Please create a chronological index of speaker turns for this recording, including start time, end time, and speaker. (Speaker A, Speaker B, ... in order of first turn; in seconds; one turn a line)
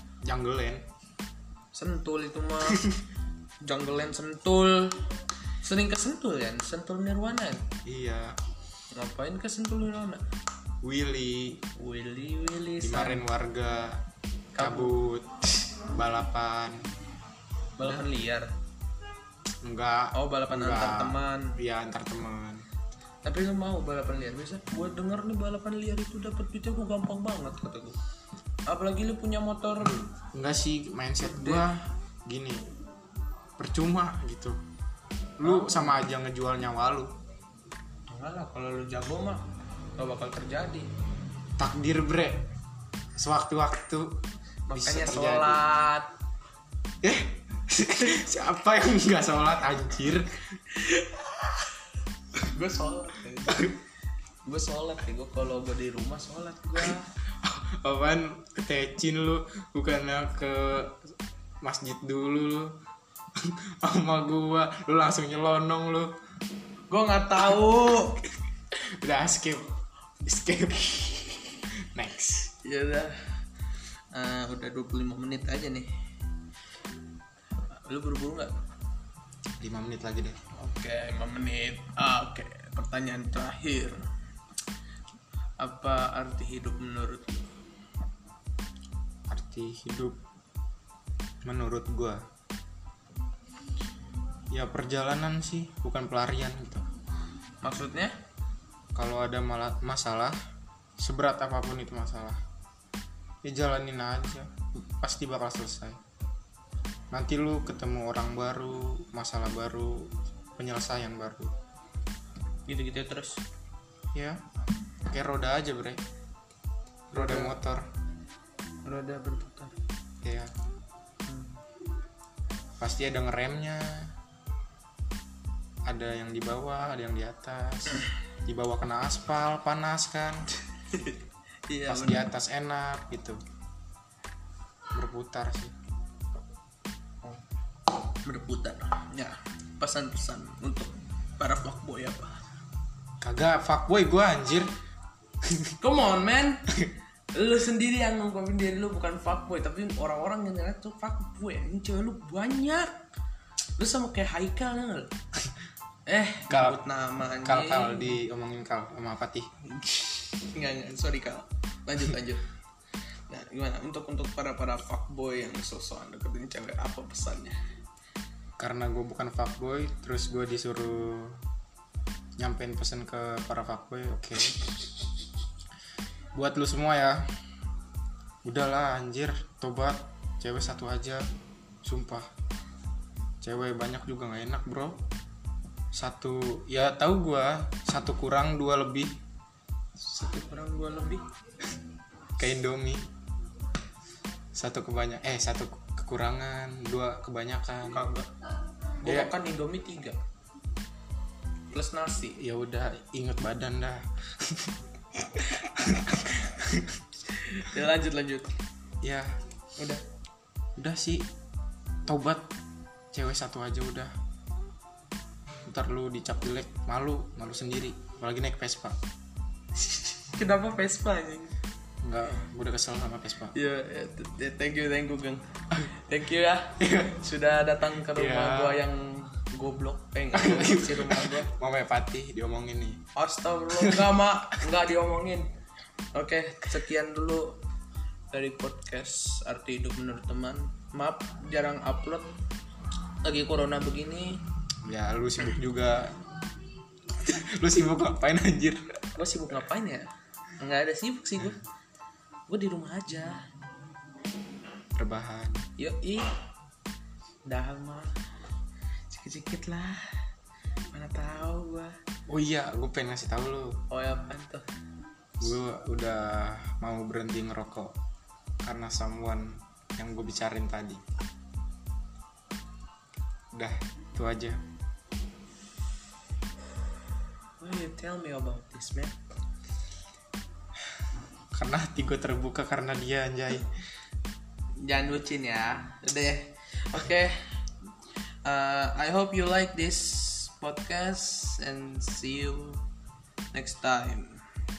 Speaker A: 0.2-0.9
Speaker B: 1.7-2.8
Speaker A: 2.6-3.0
Speaker B: 3.6-5.0
Speaker B: 5.6-7.7
Speaker A: 7.8-8.4
Speaker B: 8.9-10.2
Speaker A: 10.8-11.6
Speaker B: 11.8-13.2
Speaker A: 12.8-14.0
Speaker B: 14.5-15.0
Speaker A: 14.6-16.8
Speaker B: 17.8-18.5
Speaker A: 17.8-18.1
Speaker A: 19.6-22.7
Speaker B: 20.1-21.6
Speaker B: 23.2-28.0
Speaker B: 28.7-30.0
Speaker A: 29.8-32.7
Speaker B: 31.2-31.6
Speaker A: 33.6-34.6
Speaker A: 35.4-37.1
Speaker B: 35.4-36.0
Speaker B: 38.1-39.4
Speaker B: 40.0-40.9
Speaker A: 41.6-42.5
Speaker A: 43.2-45.6
Speaker B: 44.7-46.1
Speaker A: 47.0-50.6
Speaker B: 50.7-51.7
Speaker B: 52.4-53.7
Speaker A: 53.5-53.7
Speaker B: 54.5-57.1
Speaker A: 57.4-62.8
Speaker A: 63.3-66.2
Speaker B: 66.9-68.2
Speaker A: 68.7-69.7
Speaker A: 70.2-72.5
Speaker B: 72.6-73.2
Speaker B: 74.1-75.9
Speaker B: 77.7-78.5
Speaker A: 79.6-80.4
Speaker B: 80.5-84.0
Speaker B: 85.6-87.5
Speaker A: 89.3-90.2
Speaker A: 91.4-92.2
Speaker A: 94.5-96.8
Speaker B: 97.6-98.1
Speaker A: 98.9-100.4
Speaker A: 101.0-102.4
Speaker A: 103.4-106.0
Speaker A: 107.1-111.5
Speaker B: 112.7-113.4
Speaker A: 114.1-114.4
Speaker A: 115.0-116.0
Speaker A: 117.1-117.9
Speaker B: 117.1-117.5
Speaker B: 118.8-119.8
Speaker A: 120.2-120.5
Speaker B: 121.2-121.6
Speaker A: 122.8-124.1
Speaker A: 125.9-130.5
Speaker B: 130.9-132.2
Speaker A: 131.9-133.4
Speaker A: 134.9-135.7
Speaker B: 138.1-142.4
Speaker A: 143.2-144.7
Speaker A: 145.4-145.8
Speaker B: 145.8-146.7
Speaker B: 147.3-152.9
Speaker B: 153.8-155.1
Speaker B: 156.1-158.2
Speaker A: 156.5-156.8
Speaker A: 157.4-159.5
Speaker B: 159.7-162.4
Speaker B: 163.3-167.6
Speaker A: 168.6-171.4
Speaker A: 172.4-174.6
Speaker A: 176.3-177.2
Speaker A: 178.4-181.3
Speaker A: 181.8-182.3
Speaker A: 183.4-185.0
Speaker A: 185.9-189.2
Speaker B: 190.0-191.2
Speaker A: 192.4-193.0
Speaker A: 194.5-198.1
Speaker B: 197.9-198.3
Speaker B: 199.0-200.2
Speaker A: 199.0-199.3
Speaker B: 201.7-202.4
Speaker A: 202.4-207.0
Speaker B: 207.3-208.5
Speaker A: 209.0-209.3
Speaker B: 209.8-210.0
Speaker A: 210.8-211.3
Speaker A: 212.1-212.5
Speaker A: 213.1-214.1
Speaker A: 215.7-219.0
Speaker B: 220.1-221.5
Speaker A: 222.0-223.5
Speaker B: 223.5-231.5
Speaker A: 226.8-227.2
Speaker A: 228.1-228.8
Speaker A: 230.3-233.0
Speaker B: 233.2-235.5
Speaker A: 233.8-234.2
Speaker B: 236.1-237.6
Speaker B: 238.3-242.3
Speaker B: 243.2-244.4
Speaker A: 244.8-246.2
Speaker A: 247.2-249.0
Speaker B: 249.2-250.1
Speaker B: 250.6-251.6
Speaker B: 252.5-253.4
Speaker A: 254.9-255.7
Speaker B: 255.8-256.3
Speaker B: 257.4-258.1
Speaker B: 259.1-260.1
Speaker B: 260.9-262.0
Speaker A: 262.3-263.8
Speaker B: 263.9-264.6
Speaker A: 265.4-267.9
Speaker A: 268.6-271.0
Speaker A: 273.5-274.6
Speaker B: 277.6-279.1
Speaker A: 281.5-283.7
Speaker B: 284.8-287.4
Speaker B: 288.4-292.8
Speaker B: 293.5-294.4